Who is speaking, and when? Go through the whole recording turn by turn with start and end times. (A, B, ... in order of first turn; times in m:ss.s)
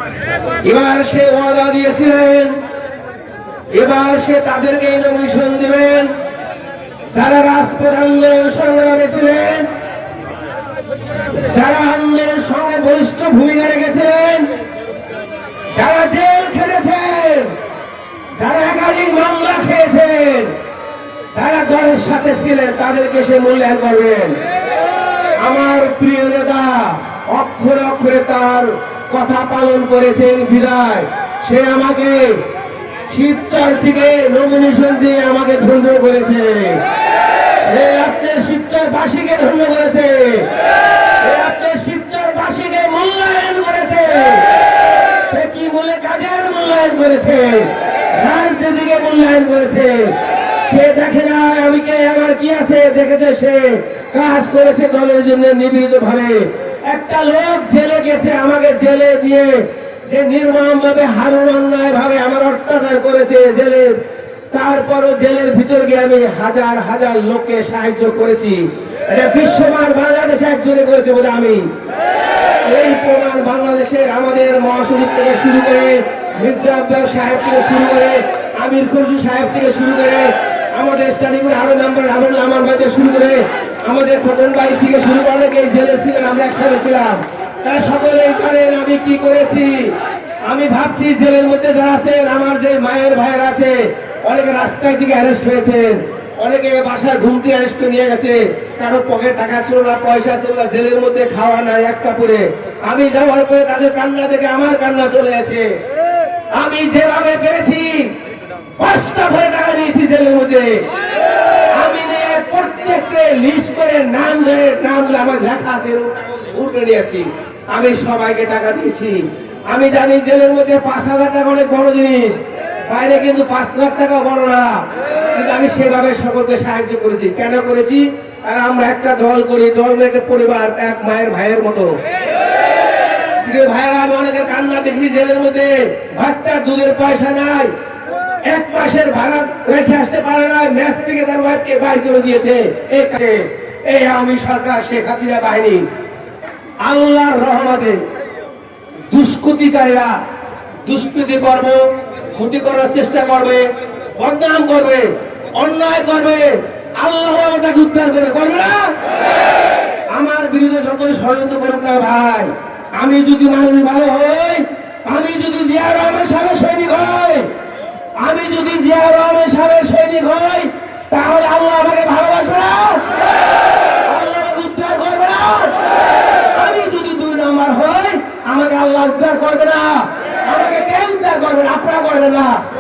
0:00.6-0:02.6 A
0:03.7-0:06.1 A
0:07.1-0:09.7 A
0:11.3-0:14.5 A
0:15.8-0:17.5 A
0:18.4-0:20.5 A
0:21.3-0:24.4 A
0:25.4-0:32.4 A
0:33.1-0:36.8 A
0:37.6-0:40.5 A
0:41.2-0:44.5 A
0:45.2-0:50.1 A
0:50.7-1:03.9 A
1:04.5-1:11.7 A
1:12.6-1:30.0 A
1:30.5-1:45.7 A
1:46.6-1:48.1 A
1:48.8-1:50.8 A
1:51.7-2:04.8 A
2:05.3-2:12.0 A
2:13.4-2:17.7 A
2:18.5-2:25.8 A
2:26.8-2:28.0 A
2:29.1-2:30.2 A
2:30.8-2:31.8 A
2:32.3-2:33.6 A
2:34.2-2:38.9 A
2:40.1-2:47.5 A
2:48.2-2:53.1 A
2:54.0-2:55.8 A
2:56.5-3:02.6 A